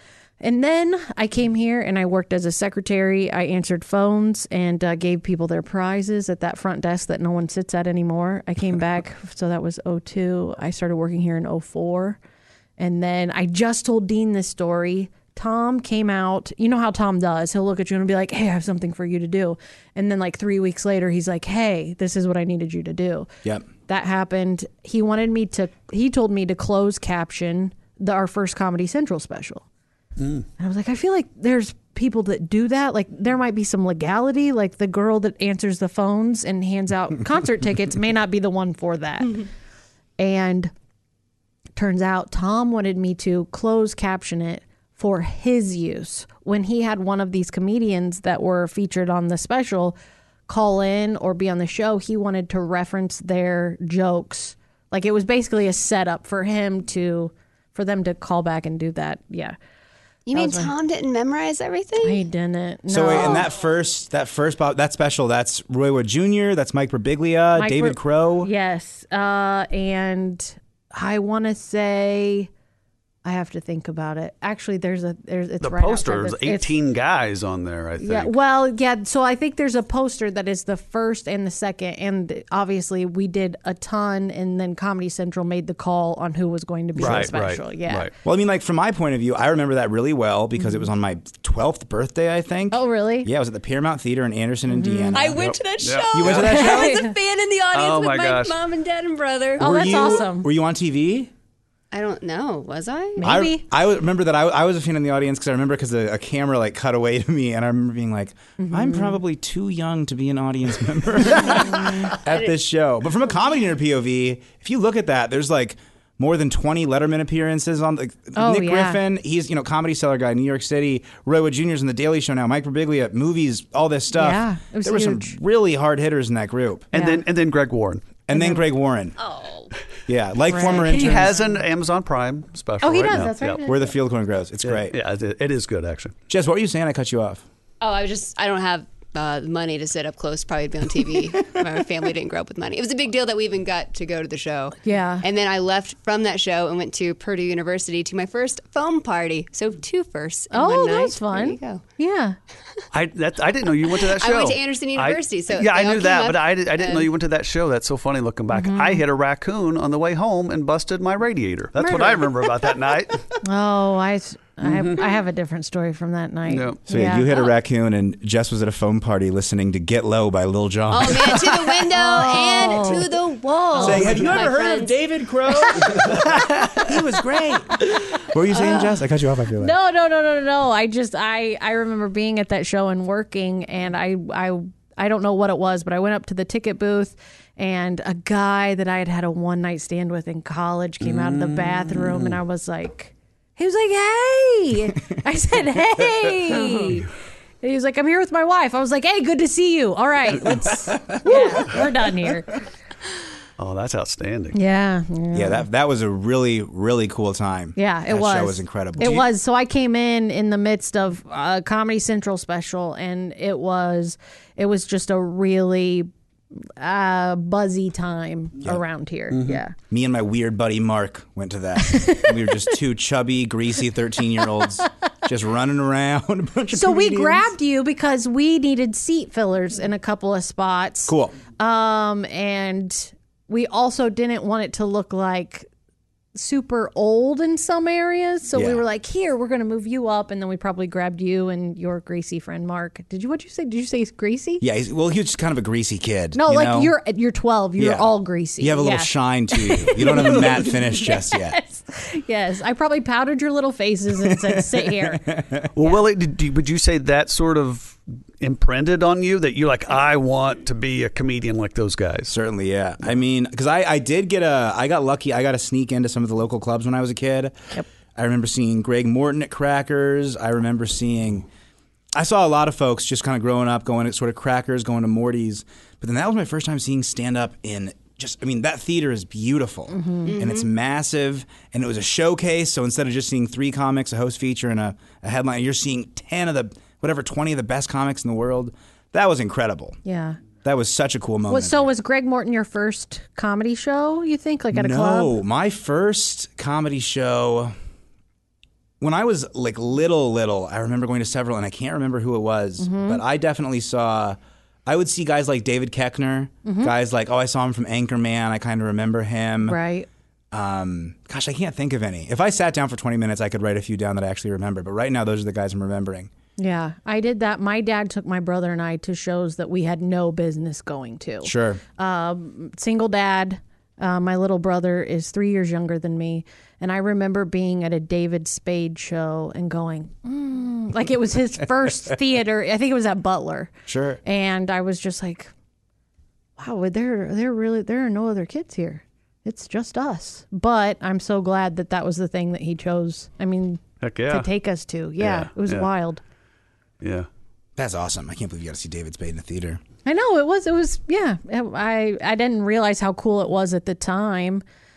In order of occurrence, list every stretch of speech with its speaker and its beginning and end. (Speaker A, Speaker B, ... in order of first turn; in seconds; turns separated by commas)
Speaker A: 0.4-12.2, Speaker A: 12.8-23.3, Speaker A: 23.9-29.6, Speaker B: 30.2-30.4, Speaker A: 30.6-39.4, Speaker A: 40.2-40.7, Speaker A: 41.8-50.0, Speaker A: 50.5-59.5, Speaker C: 60.3-62.2, Speaker A: 60.3-60.7, Speaker A: 62.0-63.5, Speaker D: 62.9-68.5, Speaker A: 67.5-72.5, Speaker A: 73.2-76.7, Speaker B: 75.6-78.3, Speaker A: 78.0-88.1, Speaker B: 87.0-88.1, Speaker D: 87.0-87.3, Speaker D: 88.2-95.5, Speaker A: 90.6-90.8, Speaker A: 92.7-93.3, Speaker A: 94.7-95.4, Speaker E: 95.1-100.2, Speaker B: 95.3-96.6, Speaker D: 96.1-97.0, Speaker A: 96.3-97.1, Speaker B: 97.7-98.6, Speaker A: 99.6-100.5, Speaker D: 99.6-101.3, Speaker C: 101.9-103.4, Speaker A: 103.2-103.6, Speaker D: 103.2-126.9, Speaker A: 108.6-109.2, Speaker A: 111.7-112.1, Speaker C: 112.3-112.5, Speaker A: 118.3-119.0, Speaker A: 124.1-125.4, Speaker A: 126.9-127.2, Speaker B: 126.9-128.1, Speaker D: 128.3-129.2, Speaker A: 128.3-128.6, Speaker D: 130.1-131.3, Speaker A: 130.5-131.6, Speaker B: 130.6-133.6, Speaker A: 132.8-133.9, Speaker D: 133.6-134.9, Speaker B: 134.6-136.1, Speaker D: 136.3-137.4, Speaker C: 137.8-151.8, Speaker A: 144.8-145.2, Speaker A: 150.5-152.4, Speaker B: 152.9-163.3, Speaker C: 153.9-157.1, Speaker A: 158.5-159.0, Speaker A: 161.8-162.3, Speaker A: 163.4-167.5, Speaker B: 164.6-165.1, Speaker B: 166.5-166.8, Speaker D: 166.9-171.7, Speaker C: 170.9-175.0, Speaker A: 171.9-173.2, Speaker A: 173.7-174.2, Speaker D: 173.8-179.7, Speaker C: 178.6-178.8, Speaker A: 179.6-197.1, Speaker B: 191.0-192.4, Speaker A: 197.6-202.5, Speaker D: 200.7-201.8, Speaker B: 203.6-204.6, Speaker A: 204.5-205.7, Speaker D: 205.3-209.2, Speaker A: 207.8-216.1, Speaker A: 216.8-219.7, Speaker B: 219.3-219.6, Speaker D: 219.9-227.5, Speaker A: 221.9-222.3, Speaker A: 226.7-235.7, Speaker D: 231.1-231.3, Speaker A: 236.3-244.6, Speaker D: 238.5-238.8, Speaker D: 244.6-246.9, Speaker A: 246.3-255.2, Speaker D: 247.8-251.6, Speaker D: 254.2-255.7, Speaker B: 255.7-262.4, Speaker D: 262.3-271.5, Speaker D: 272.1-290.0, Speaker A: 279.9-280.3, Speaker C: 280.2-280.7, Speaker A: 290.0-290.4, Speaker D: 290.6-291.9, Speaker A: 291.5-295.4, Speaker D: 294.7-297.7, Speaker D: 299.0-309.8, Speaker A: 302.8-303.2, Speaker A: 306.6-306.9, Speaker A: 309.6-310.1, Speaker D: 310.5-316.3, Speaker A: 316.6-333.7, Speaker D: 321.4-321.8, Speaker D: 333.9-334.2, Speaker A: 334.2-335.5, Speaker A: 336.6-346.2, Speaker B: 344.0-344.5, Speaker B: 345.2-345.9, Speaker B: 347.0-347.3, Speaker D: 347.8-349.8, Speaker A: 350.0-354.6